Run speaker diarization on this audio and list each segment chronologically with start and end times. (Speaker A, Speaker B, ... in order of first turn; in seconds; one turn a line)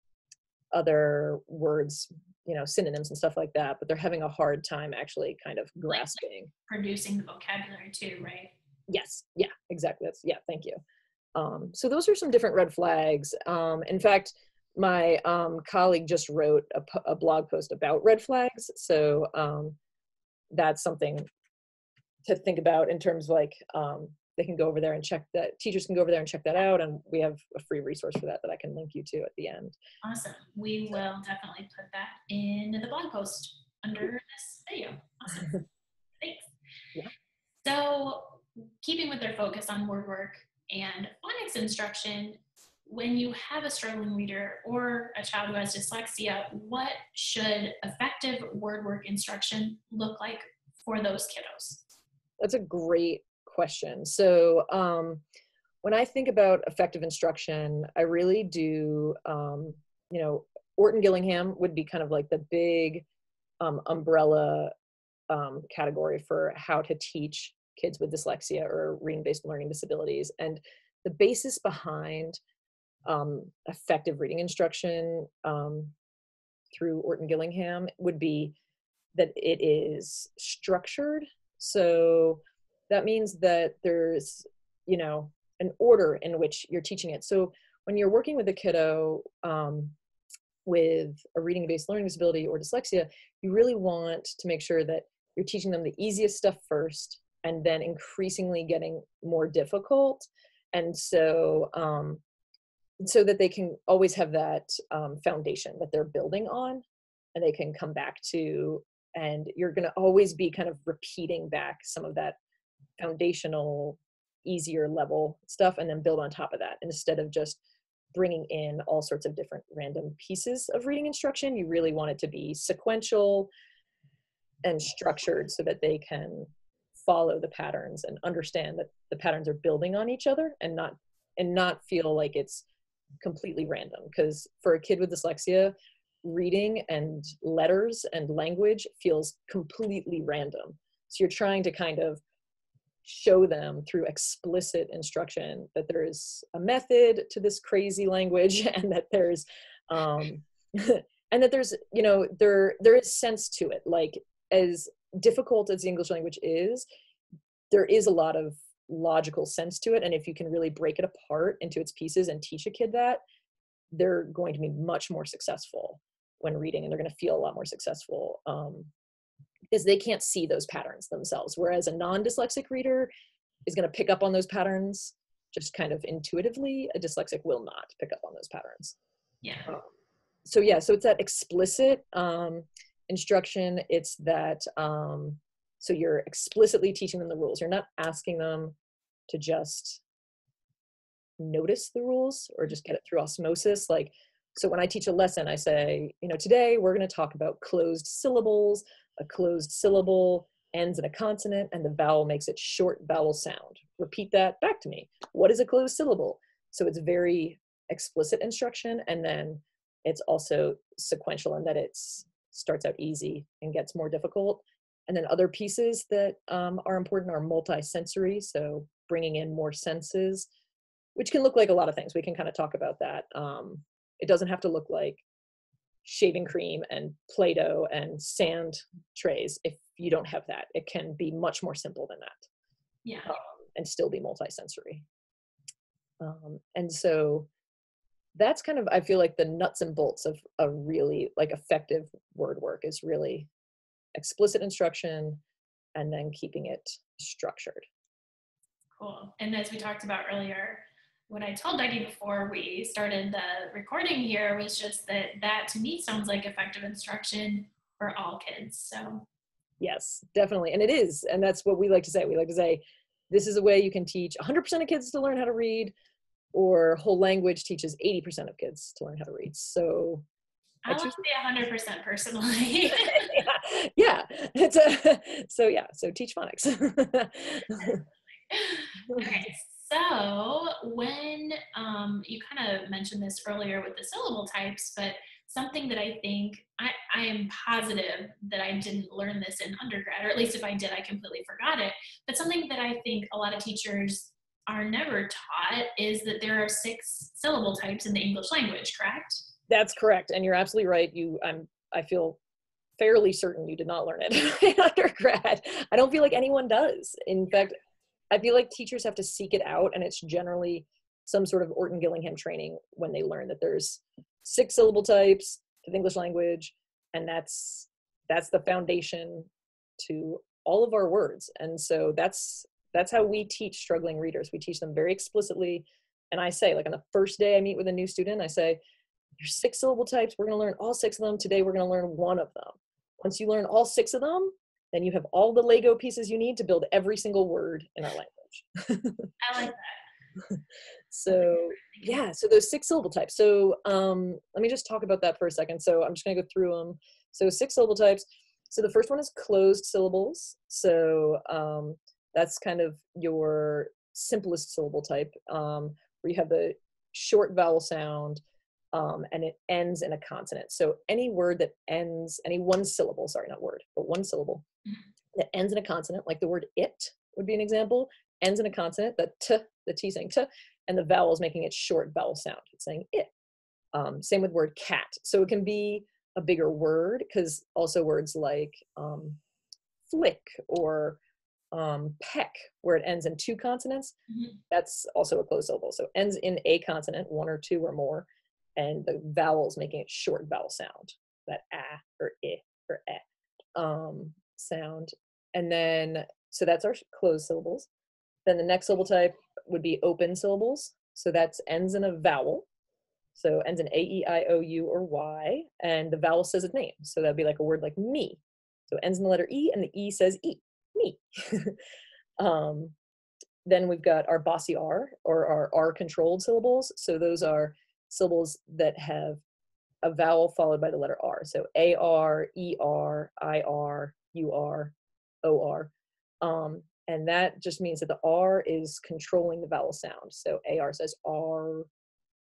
Speaker A: 0.7-6.5
Speaker B: 5.9-8.5
Speaker A: 8.9-10.8
Speaker A: 11.3-19.8
Speaker A: 20.5-21.2
Speaker A: 22.2-29.8
Speaker B: 30.0-35.6
Speaker B: 36.2-36.5
Speaker B: 37.6-51.8
Speaker A: 52.4-55.2
Speaker A: 55.8-63.0
Speaker A: 63.6-64.7
Speaker A: 65.3-72.4
Speaker A: 73.1-75.9
Speaker A: 76.7-78.6
Speaker A: 79.2-90.0
Speaker A: 90.7-102.2
Speaker A: 103.0-106.8
Speaker A: 107.3-112.4
Speaker A: 113.0-117.6
Speaker A: 118.1-123.5
Speaker A: 124.7-132.7
Speaker A: 133.2-142.2
Speaker A: 143.1-156.8
Speaker A: 157.7-163.2
Speaker A: 163.9-168.9
Speaker A: 169.7-173.1
Speaker A: 173.7-179.0
Speaker B: 179.4-179.7
Speaker A: 180.4-188.8
Speaker A: 189.3-190.0
Speaker A: 191.4-220.5
Speaker A: 221.2-225.2
Speaker A: 226.0-232.4
Speaker B: 233.1-233.4
Speaker A: 233.3-235.1
Speaker A: 236.2-237.5
Speaker A: 238.3-243.5
Speaker A: 244.2-245.4
Speaker A: 245.9-247.8
Speaker B: 249.0-259.2
Speaker A: 259.8-265.9
Speaker A: 266.5-270.2
Speaker B: 270.9-273.4
Speaker A: 270.9-271.2
Speaker A: 272.9-278.0
Speaker B: 278.5-299.5
Speaker A: 299.7-302.4
Speaker A: 303.0-307.8
Speaker A: 308.3-328.8
Speaker A: 329.4-339.3
Speaker B: 339.4-340.0
Speaker A: 340.4-358.4
Speaker B: 341.3-342.2
Speaker A: 358.9-364.6
Speaker A: 365.3-373.3
Speaker A: 373.9-379.4
Speaker A: 380.1-381.2
Speaker A: 381.7-384.1
Speaker B: 384.3-384.6
Speaker A: 384.7-393.2
Speaker A: 393.8-397.9
Speaker A: 398.5-402.7
Speaker A: 403.4-411.8
Speaker A: 412.4-412.9
Speaker A: 413.6-419.4
Speaker A: 420.0-425.9
Speaker A: 426.4-431.9